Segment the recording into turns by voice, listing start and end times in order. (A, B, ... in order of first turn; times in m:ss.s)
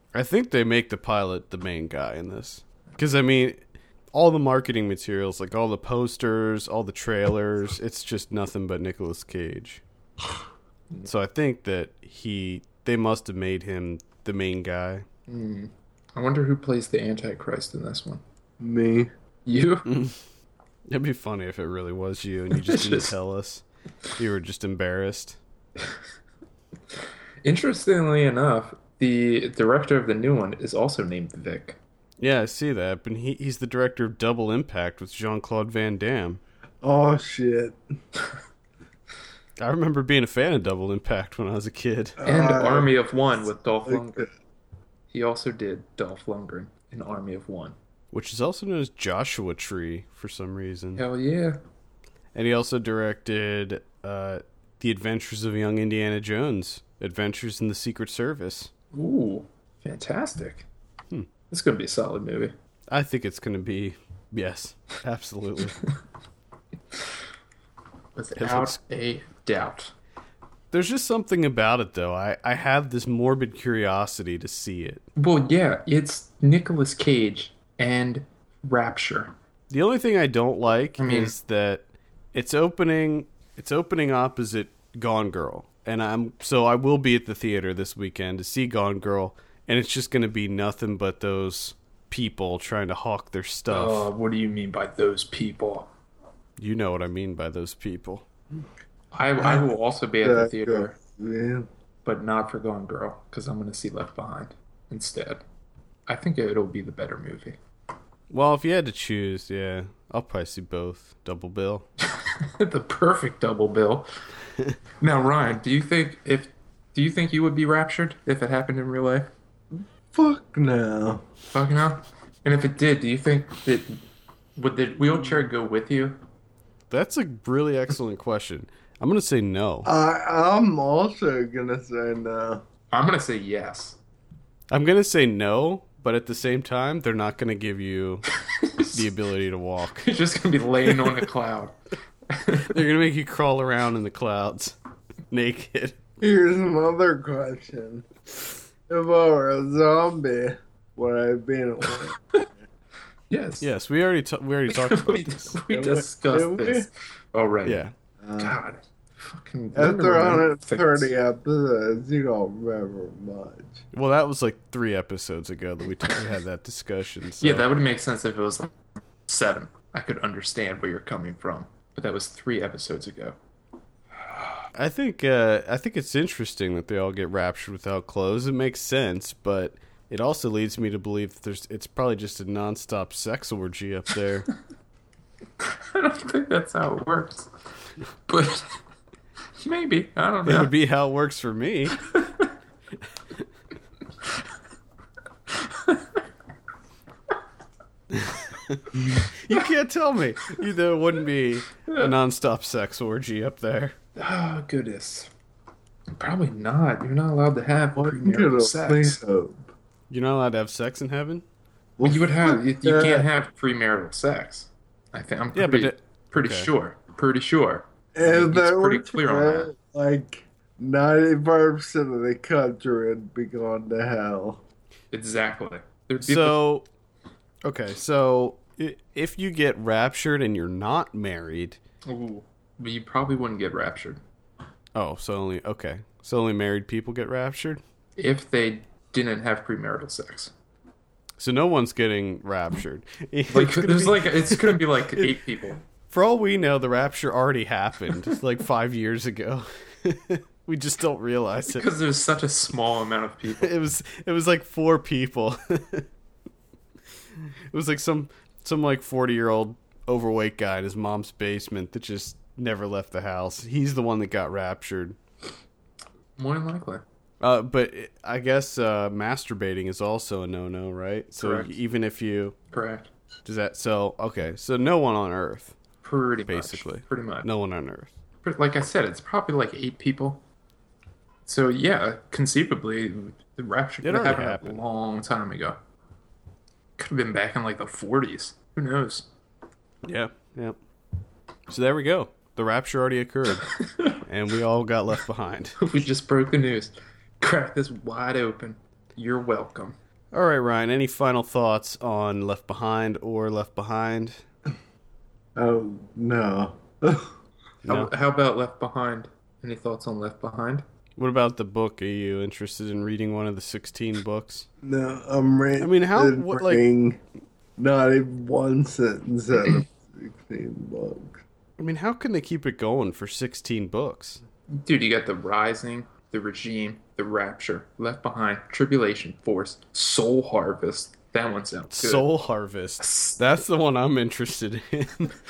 0:00.1-0:09.8 A
0:11.0-0:15.1 A
0:15.3-0:18.2 B
0:18.6-0:19.1 C
0:19.5-0:19.9 B
0:19.9-0:20.2 A
0:20.9-0:23.6 A
0:22.5-0:23.1 B
0:24.2-0:25.4 A
0:27.4-0:31.8 B
0:32.2-0:36.4 A
0:36.8-0:37.8 C
0:39.6-0:42.2 A
0:42.2-0:42.9 C
0:42.2-0:44.3 B
0:43.9-0:44.3 C
0:45.1-0:47.8 B
0:48.1-0:51.0 A
0:51.0-0:51.6 B
0:52.3-0:58.7 A
0:58.9-1:00.7 B
1:01.5-1:02.5 B
1:02.9-1:05.8 A
1:08.2-1:09.9 B
1:08.4-1:08.8 A
1:10.7-1:15.0 A
1:15.2-1:19.3 B
1:19.7-1:34.1 A
1:21.0-1:21.3 B
1:33.7-1:35.9 B
1:36.6-1:38.3 A
1:39.1-1:41.0 B
1:39.4-1:39.7 C
1:40.2-1:41.7 C
1:42.0-1:45.4 B
1:46.1-1:47.6 B
1:48.3-1:51.9 A
1:52.2-1:54.1 B
1:55.0-1:59.3 B
1:59.7-2:01.3 C
2:01.5-2:04.0 B
2:04.6-2:06.2 B
2:06.9-2:09.9 A
2:09.8-2:12.6 C
2:12.9-2:14.0 B
2:14.7-2:18.3 A
2:18.6-2:19.0 B
2:18.8-2:20.1 A
2:20.0-2:21.8 B
2:22.3-2:22.8 B
2:22.6-2:24.8 A
2:25.3-2:26.0 A
2:26.2-2:28.1 C
2:28.9-2:32.2 C
2:31.9-2:32.4 B
2:33.3-2:33.7 B
2:33.6-2:35.5 A
2:34.7-2:37.8 B
2:35.7-2:36.9 C
2:37.6-2:37.9 A
2:38.2-2:38.6 C
2:38.4-2:41.1 B
2:39.7-2:43.8 C
2:43.9-2:47.7 A
2:47.4-2:48.7 B
2:49.3-2:53.4 B
2:54.8-3:04.5 A
3:05.6-3:07.5 B
3:08.3-3:08.8 B
3:09.6-3:10.7 B
3:10.4-3:12.0 A
3:15.7-3:16.0 B
3:18.1-3:24.0 A
3:21.9-3:22.1 B
3:24.2-3:25.3 B
3:26.2-3:29.2 B
3:28.0-3:29.7 C
3:30.1-3:31.4 A
3:32.0-3:33.3 C
3:32.0-3:39.7 B
3:35.6-3:36.7 A
3:38.2-3:44.6 C
3:45.1-3:46.6 B
3:46.2-3:46.9 A
3:47.6-3:51.8 A
3:52.1-3:54.2 B
3:55.0-3:57.8 A
3:58.2-4:00.5 B
4:01.4-4:05.3 A
4:03.5-4:05.8 B
4:06.1-4:11.9 A
4:11.7-4:13.7 B
4:13.6-4:16.1 A
4:17.7-4:25.2 A
4:26.4-4:27.0 B
4:27.4-4:32.6 A
4:31.4-4:31.8 B
4:32.7-4:33.1 B
4:33.4-4:35.8 A
4:36.0-4:37.5 B
4:36.5-4:38.1 A
4:38.4-4:40.4 B
4:41.4-4:45.8 B
4:44.0-4:44.8 A
4:47.0-4:49.3 B
4:50.0-4:50.8 A
4:51.7-4:53.7 A
4:53.6-4:54.2 B
4:54.2-4:55.8 A
4:55.8-5:00.0 B
5:00.3-5:04.4 A
5:05.6-5:07.3 C
5:07.8-5:08.1 A
5:07.9-5:10.8 B
5:11.2-5:14.7 A
5:14.8-5:17.2 C
5:15.8-5:16.8 A
5:17.8-5:21.4 C
5:21.8-5:24.4 A
5:24.8-5:32.3 B
5:31.9-5:35.4 A
5:33.0-5:33.4 B